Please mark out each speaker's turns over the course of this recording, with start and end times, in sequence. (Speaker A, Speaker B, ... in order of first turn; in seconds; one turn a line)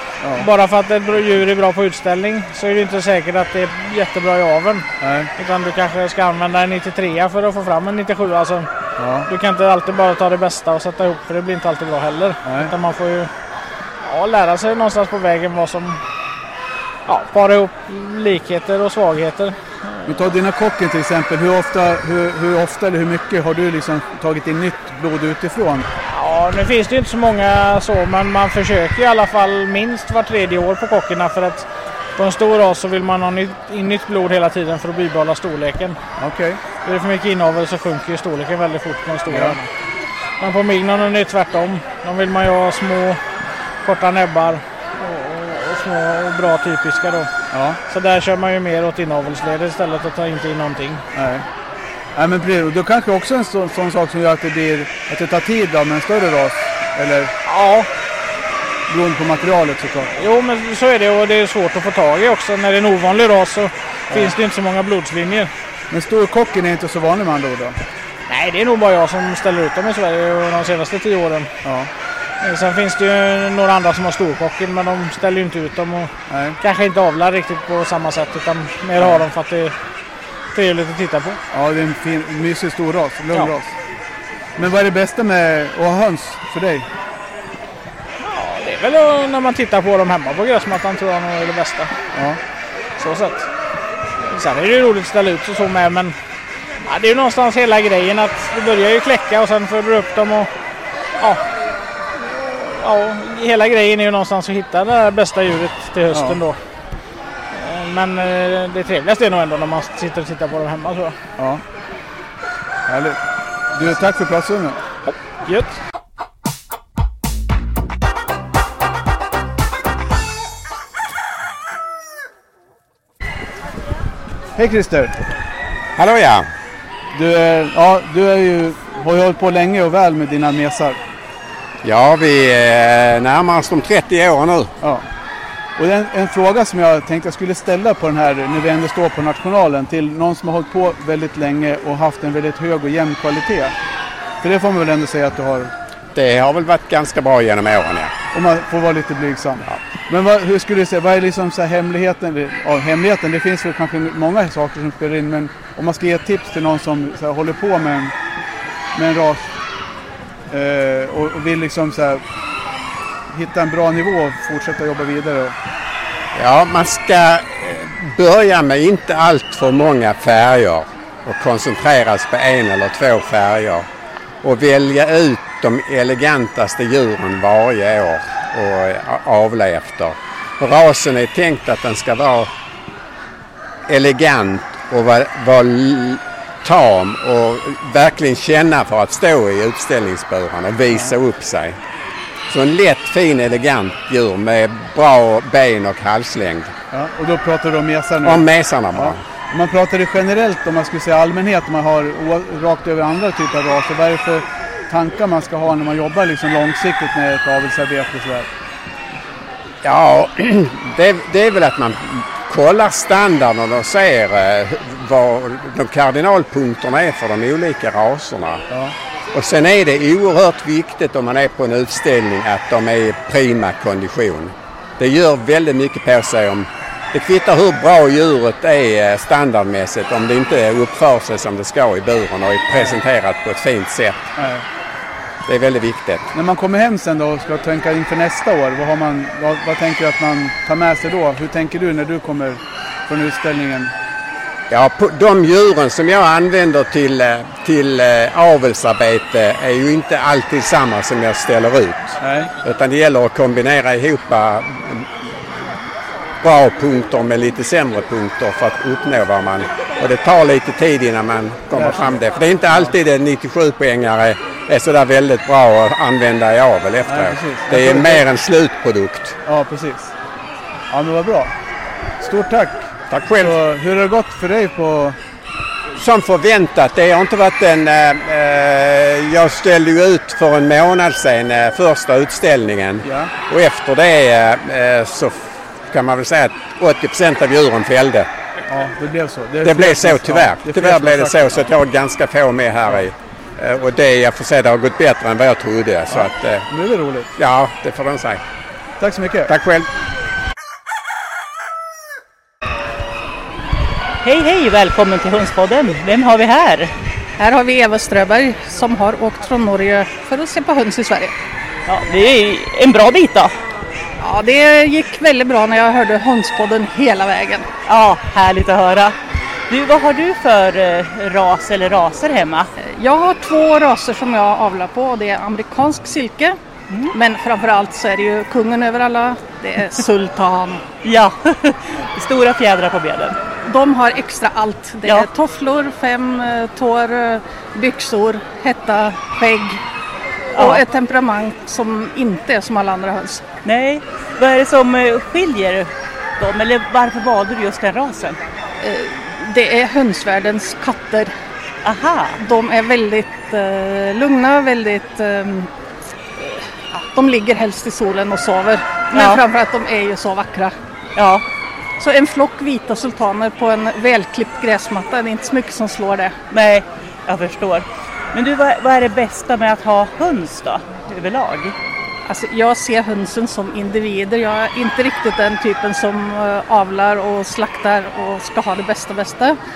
Speaker A: 0.2-0.5
Speaker B: 0.3-8.7
Speaker A: 5.0-5.3
Speaker A: 9.0-9.3
Speaker B: 9.3-13.3
Speaker A: 12.4-12.7
Speaker B: 14.0-16.0
Speaker B: 17.1-20.3
Speaker A: 20.1-25.9
Speaker B: 26.0-31.6
Speaker B: 32.2-36.0
Speaker A: 36.2-36.6
Speaker B: 36.8-39.7
Speaker A: 39.3-39.6
Speaker B: 40.4-43.2
Speaker B: 43.8-47.3
Speaker A: 47.5-47.8
Speaker B: 47.9-51.0
Speaker A: 51.1-51.4
Speaker A: 52.1-57.3
Speaker B: 57.5-57.9
Speaker A: 58.9-60.2
Speaker B: 60.2-65.5
Speaker A: 64.1-64.3
Speaker A: 65.9-67.8
Speaker B: 68.3-71.5
Speaker A: 71.6-71.9
Speaker B: 72.4-79.7
Speaker A: 76.3-76.6
Speaker A: 79.0-79.2
Speaker B: 80.5-81.4
Speaker A: 81.5-83.7
Speaker A: 84.5-86.9
Speaker B: 88.2-91.9
Speaker A: 92.1-92.4
Speaker B: 93.0-93.5
Speaker B: 94.2-96.1
Speaker B: 96.8-100.5
Speaker B: 102.2-106.6
Speaker A: 106.1-106.4
Speaker B: 107.5-111.2
Speaker A: 111.4-111.6
Speaker A: 112.9-113.2
Speaker A: 113.7-114.8
Speaker B: 115.1-115.8
Speaker A: 124.5-125.1
Speaker C: 125.9-126.5
Speaker A: 127.1-131.0
Speaker C: 131.8-134.7
Speaker A: 134.8-135.1
Speaker A: 135.8-143.7
Speaker A: 144.4-145.7
Speaker C: 146.1-148.1
Speaker A: 148.3-158.1
Speaker A: 158.9-159.5
Speaker A: 160.5-162.2
Speaker A: 163.3-165.6
Speaker C: 166.3-173.9
Speaker C: 174.4-182.5
Speaker C: 183.9-191.8
Speaker C: 192.5-196.7
Speaker A: 196.9-208.5
Speaker C: 198.2-199.2
Speaker C: 209.8-218.6
Speaker C: 219.3-234.2
Speaker A: 232.7-233.0
Speaker A: 234.3-234.6
Speaker C: 235.4-236.3
Speaker A: 236.3-243.9
Speaker C: 244.7-255.3
Speaker A: 252.2-252.5
Speaker C: 256.4-269.4
Speaker A: 261.7-262.1
Speaker A: 262.7-262.9
Speaker A: 267.1-268.2
Speaker A: 269.4-270.1
Speaker A: 270.9-271.5
Speaker A: 272.2-275.2
Speaker C: 273.1-273.6
Speaker C: 275.9-288.3
Speaker A: 283.0-283.3
Speaker A: 288.7-291.7
Speaker C: 289.6-296.6
Speaker A: 296.1-297.3
Speaker C: 297.4-298.4
Speaker A: 299.0-299.5
Speaker C: 299.5-299.9
Speaker D: 304.2-306.9
Speaker E: 307.4-311.3
Speaker D: 311.9-313.5
Speaker E: 314.2-317.6
Speaker D: 317.9-319.1
Speaker D: 319.7-322.7
Speaker E: 322.8-326.6
Speaker D: 326.9-327.1
Speaker E: 327.1-330.8
Speaker D: 331.0-333.4
Speaker E: 333.6-339.8
Speaker D: 335.0-335.3
Speaker D: 340.5-340.8
Speaker E: 340.5-343.4
Speaker D: 343.6-348.4
Speaker E: 348.8-351.3
Speaker D: 351.8-352.4
Speaker E: 352.4-355.7
Speaker E: 356.4-360.7
Speaker D: 359.1-359.4
Speaker D: 361.1-361.4
Speaker E: 362.0-366.3
Speaker D: 366.5-371.8
Speaker E: 372.2-379.6